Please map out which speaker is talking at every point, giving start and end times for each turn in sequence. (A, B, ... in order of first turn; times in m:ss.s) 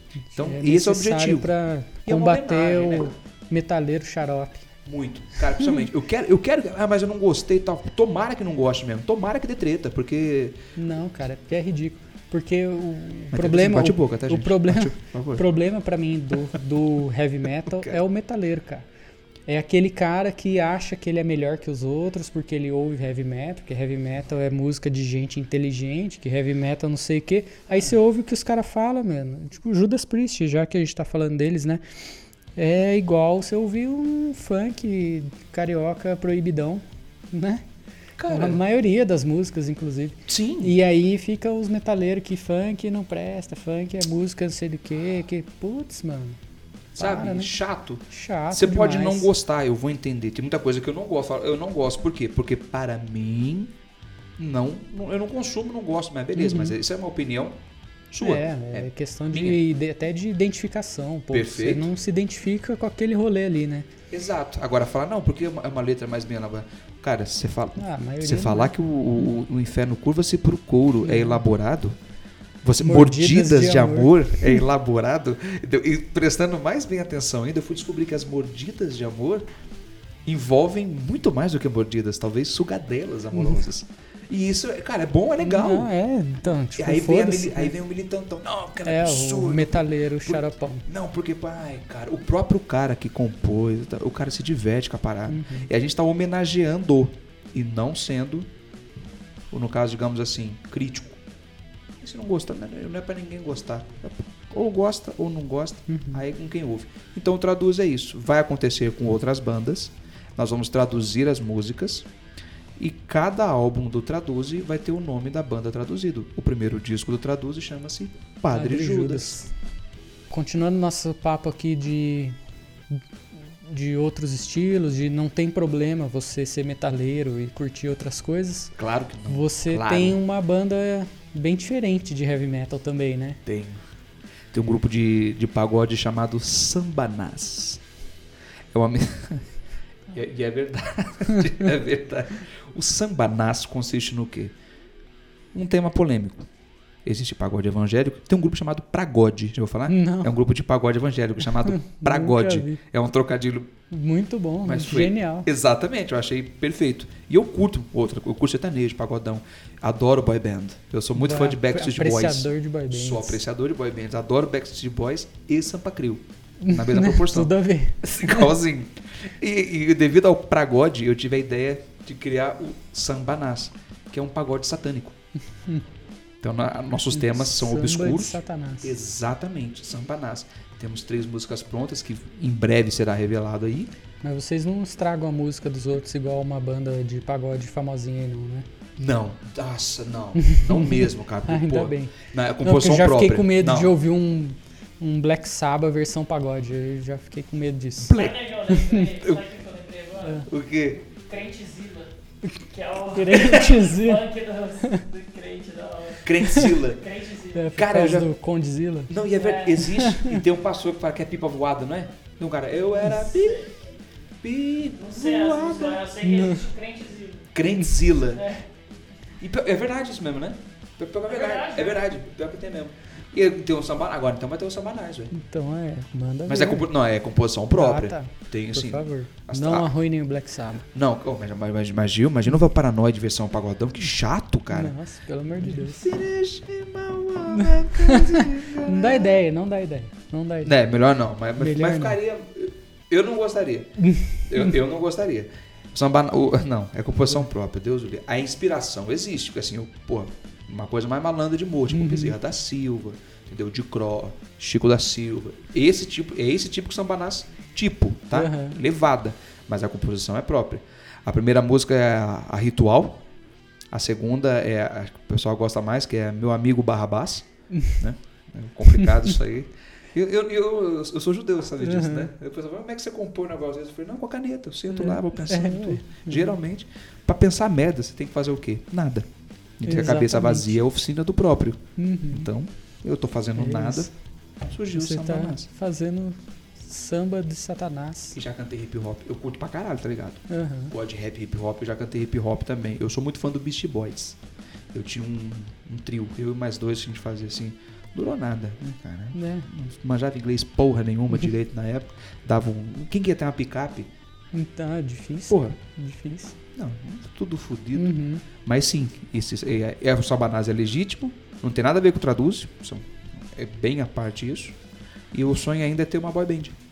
0:00.3-0:04.7 A
0:00.4-0:01.5 B
0:02.1-0:03.2 B
0:04.8-0:10.6 B
0:10.8-0:18.9 A
0:13.3-0:15.4 B
0:17.6-0:18.0 B
0:19.5-0:31.8 A
0:32.6-0:37.6 A
0:38.2-0:38.6 B
0:38.3-0:46.4 A
0:40.3-0:40.8 B
0:47.0-0:47.5 A
0:47.0-0:53.8 B
0:48.1-0:49.3 A
0:54.4-0:57.6 B
0:56.4-0:56.8 A
0:58.1-0:59.6 B
0:58.2-1:03.9 A
1:01.3-1:01.9 B
1:04.1-1:12.0 B
1:07.8-1:08.7 A
1:11.0-1:11.4 A
1:12.6-1:19.5 B
1:12.8-1:14.6 A
1:20.2-1:25.9 B
1:23.3-1:23.6 A
1:25.4-1:27.7 A
1:26.8-1:38.5 B
1:28.8-1:30.9 A
1:35.3-1:35.7 A
1:39.5-1:41.2 B
1:42.0-1:52.1 B
1:45.9-1:46.2 A
1:52.8-1:59.4 B
1:58.5-1:59.5 A
2:00.3-2:02.4 A
2:02.9-2:13.4 A
2:08.8-2:10.2 B
2:13.5-2:13.8 B
2:14.5-2:17.8 B
2:18.7-2:19.5 B
2:20.1-2:24.5 B
2:25.5-2:26.5 B
2:27.0-2:33.7 B
2:29.9-2:30.3 A
2:31.6-2:32.8 A
2:33.9-2:35.5 A
2:34.6-2:55.2 B
2:41.2-2:43.4 A
2:46.6-2:48.5 A
2:56.4-3:03.9 B
2:57.1-2:59.0 A
3:04.2-3:08.7 A
3:09.0-3:13.9 B
3:10.4-3:19.0 A
3:18.0-3:18.4 B
3:18.1-3:20.5 C
3:20.2-3:20.5 A
3:20.5-3:21.0 B
3:21.1-3:27.7 C
3:23.0-3:24.3 A
3:26.2-3:27.0 B
3:26.4-3:26.7 A
3:27.5-3:29.1 A
3:27.8-3:28.3 B
3:29.1-3:33.6 B
3:29.3-3:29.9 C
3:29.8-3:30.4 A
3:33.1-3:33.8 C
3:34.4-3:36.1 B
3:35.0-3:37.5 C
3:36.2-3:36.7 A
3:37.5-3:38.5 B
3:38.3-3:38.7 C
3:39.4-3:45.3 B
3:41.3-3:42.0 C
3:45.3-3:46.9 A
3:46.5-3:49.9 B
3:47.7-3:50.9 A
3:50.9-3:55.0 B
3:54.7-3:56.1 A
3:55.6-3:59.4 B
3:57.5-4:00.8 A
4:00.6-4:23.2 B
4:01.6-4:02.2 A
4:04.0-4:04.7 A
4:11.9-4:12.4 A
4:18.3-4:18.8 A
4:23.9-4:39.3 B
4:27.7-4:28.0 A
4:28.9-4:29.3 A
4:31.8-4:32.3 A
4:34.9-4:36.5 A
4:39.8-4:44.1 B
4:39.8-4:40.8 A
4:42.0-4:42.5 A
4:43.6-4:44.1 A
4:44.7-4:45.7 B
4:44.9-4:48.4 A
4:48.3-4:54.4 B
4:50.5-4:50.9 A
4:54.9-5:04.1 B
4:59.3-4:59.7 A
5:04.5-5:06.6 A
5:05.5-5:05.8 B
5:06.8-5:14.8 B
5:07.9-5:08.4 A
5:15.3-5:16.8 B